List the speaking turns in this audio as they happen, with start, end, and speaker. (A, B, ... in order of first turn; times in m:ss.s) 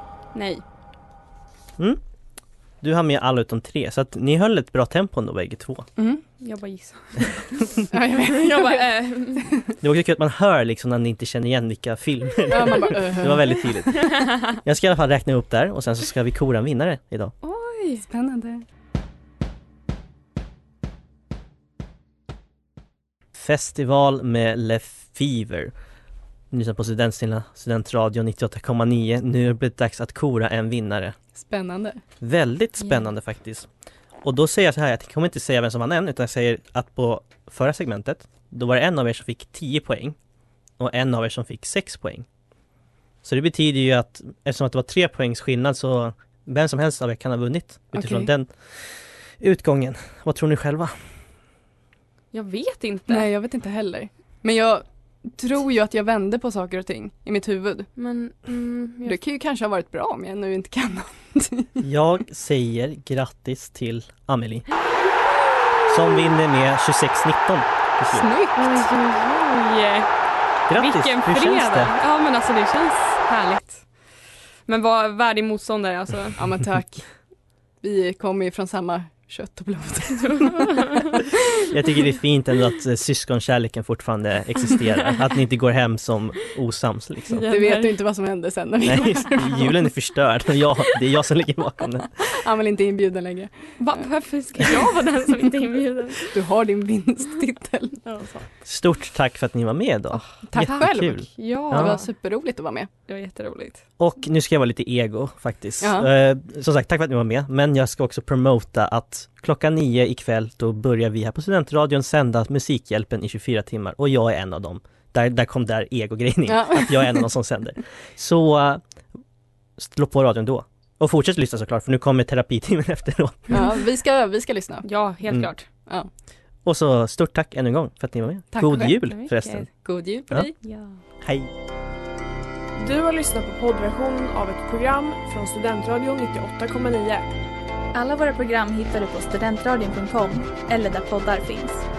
0:00.3-0:00.6 A
0:02.8-0:05.9 B
0:06.0-0:06.2 C
0:06.4-0:09.5 A
0:07.9-0:08.9 C
0:09.8-0:17.3 B
0:12.5-0:13.7 C
0:14.0-0:14.4 A
0:17.4-0:18.0 A
0:18.0-0:18.6 C
0:23.4-0:25.7 B
0:26.5-0:31.2 B
0:31.4-0:32.0 C
0:32.2-0:33.7 B
0:34.2-0:40.2 B
0:40.8-0:42.2 B
0:43.2-0:50.9 B
0:47.9-0:48.3 C
0:52.3-0:53.3 A
0:53.1-0:57.9 C
0:58.0-0:59.2 A
0:59.0-1:01.8 C
1:01.8-1:04.6 B
1:05.9-1:08.3 B
1:08.1-1:08.8 C
1:08.6-1:10.1 A
1:10.7-1:11.9 B
1:10.7-1:13.8 A
1:14.7-1:16.4 A
1:16.4-1:17.1 C
1:17.8-1:21.0 C
1:20.2-1:21.2 A
1:21.6-1:27.4 B
1:27.3-1:28.0 A
1:27.5-1:29.7 C
1:28.8-1:32.1 B
1:32.2-1:33.5 C
1:33.8-1:36.4 A
1:36.3-1:38.0 C
1:38.0-1:38.4 A
1:38.6-1:41.9 B
1:40.1-1:42.9 C
1:41.4-1:42.1 A
1:43.1-1:43.8 A
1:44.0-1:58.8 B
1:45.8-1:46.1 C
1:56.5-1:57.3 C
1:59.8-2:03.6 B
2:03.5-2:04.8 C
2:04.8-2:05.6 A
2:06.6-2:09.7 B
2:08.5-2:09.0 C
2:09.1-2:09.6 A
2:09.8-2:10.5 C
2:10.6-2:11.0 A
2:11.2-2:11.5 B
2:12.8-2:17.2 D
2:17.9-2:21.8 E